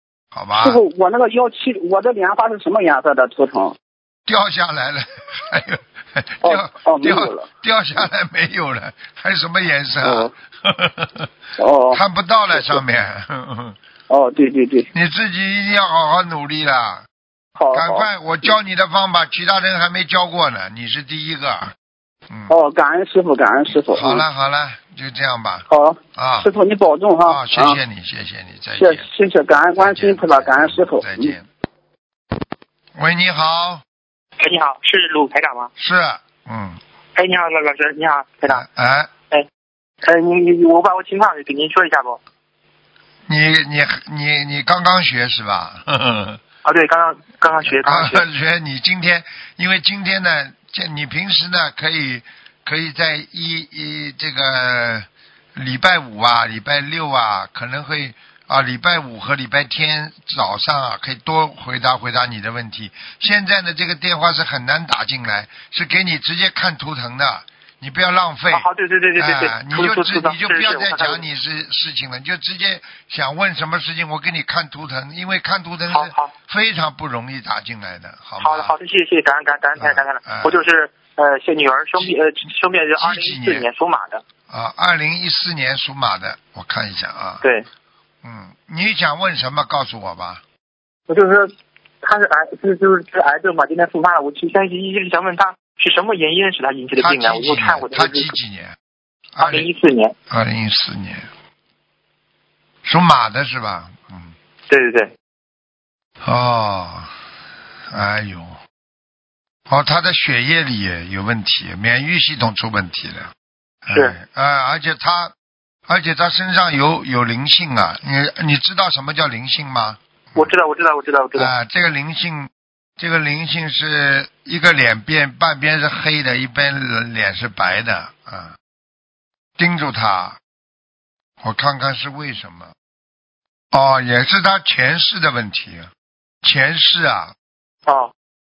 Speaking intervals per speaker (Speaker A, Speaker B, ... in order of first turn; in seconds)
Speaker A: 0.3-0.8, 4.3-11.3, 11.9-13.8, 14.9-17.0, 17.7-21.7, 23.9-26.5, 27.2-29.1, 29.8-31.5, 33.0-33.8, 35.8-36.8, 38.5-39.1, 43.3-46.4, 47.6-68.7, 69.2-78.8, 79.8-80.6, 83.0-83.7, 84.5-87.5, 88.2-90.4, 97.0-98.8, 99.3-99.7, 100.3-101.3, 102.8-104.3, 106.2-107.1, 107.9-108.6, 109.7-113.3, 113.8-115.3, 115.9-120.5, 121.3-128.6, 129.6-130.4, 131.4-132.7, 133.7-135.9, 136.4-137.3
Speaker B: 0.6-3.8, 6.4-7.5, 10.0-10.3, 11.6-12.8, 14.1-14.9, 17.6-18.1, 22.5-24.2, 25.7-27.8, 28.8-31.4
Speaker C: 34.4-35.7, 37.2-38.6, 40.0-42.2, 46.6-48.2, 68.5-71.2, 75.9-76.3, 78.4-84.2, 91.1-91.5, 92.0-98.3, 99.4-100.2, 104.7-105.1, 120.4-121.5, 137.9-138.1